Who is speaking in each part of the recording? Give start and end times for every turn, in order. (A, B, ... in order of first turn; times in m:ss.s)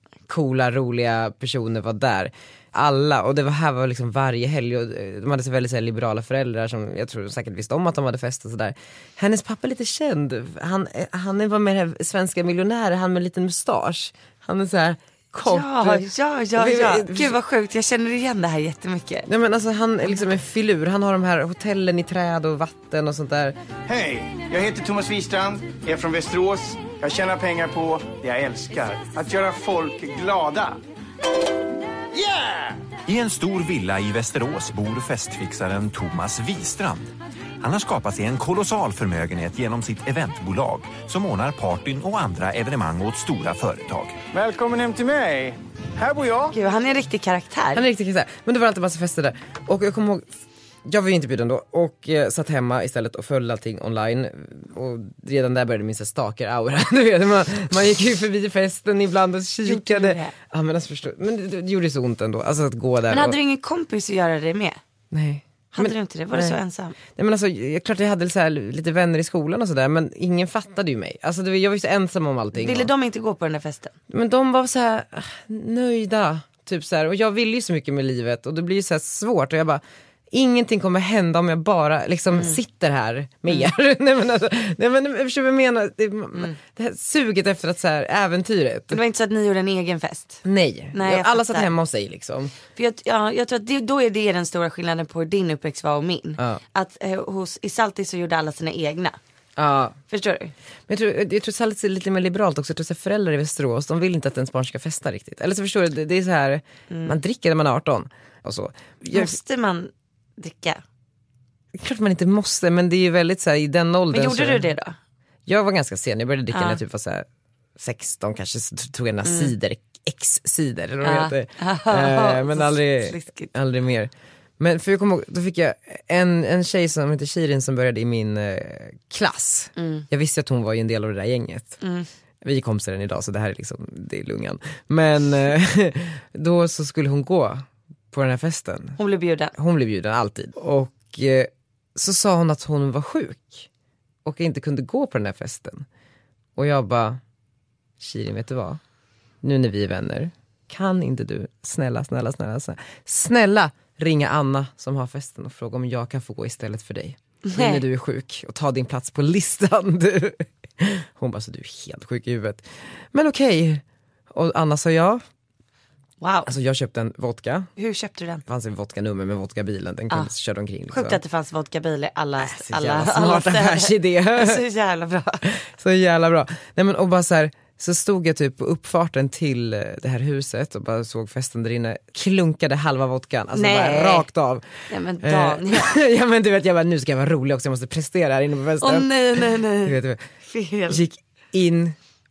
0:00.3-0:17.3 A
0:15.4-0:19.3 B
0:19.3-0:23.6 A
0:23.9-0:30.8 C
0:32.1-0:32.8 C
0:33.1-0:37.1 D
0:37.6-0:44.2 D
0:44.3-0:46.5 C
0:46.5-0:47.8 B
0:47.7-0:50.2 A
0:50.8-1:03.4 A
0:59.6-1:00.3 B
1:03.1-1:04.8 B
1:05.1-1:06.6 A
1:05.7-1:07.0 B
1:07.1-1:12.9 A
1:12.5-1:13.9 B
1:14.1-1:19.8 A
1:20.3-1:29.0 A
1:28.9-1:31.7 B
1:30.4-1:32.5 A
1:32.7-1:39.2 B
1:39.6-1:40.0 A
1:40.1-1:40.5 B
1:40.9-1:49.3 A
1:46.9-1:47.2 B
1:49.1-1:50.8 B
1:51.7-1:54.6 A
1:54.1-1:55.0 B
1:55.5-1:57.2 A
1:56.5-1:56.8 B
1:57.8-2:11.8 A
1:59.2-1:59.5 B
2:01.0-2:03.5 B
2:09.8-2:10.1 B
2:11.8-2:12.1 B
2:12.4-2:19.0 A
2:19.0-2:19.5 B
2:19.5-2:23.7 A
2:24.2-2:25.8 A
2:26.6-2:27.2 A
2:28.0-2:28.8 A
2:29.4-2:43.8 A
2:37.4-2:37.8 B
2:44.3-2:45.2 A
2:46.2-2:46.5 B
2:46.5-2:47.7 A
2:47.8-2:48.4 B
2:48.4-2:51.2 A
2:50.9-2:55.4 B
2:52.4-2:54.6 A
2:55.5-3:04.7 A
3:03.5-3:04.3 B
3:04.9-3:06.0 B
3:05.2-3:10.2 A
3:08.8-3:11.0 B
3:10.9-3:12.0 A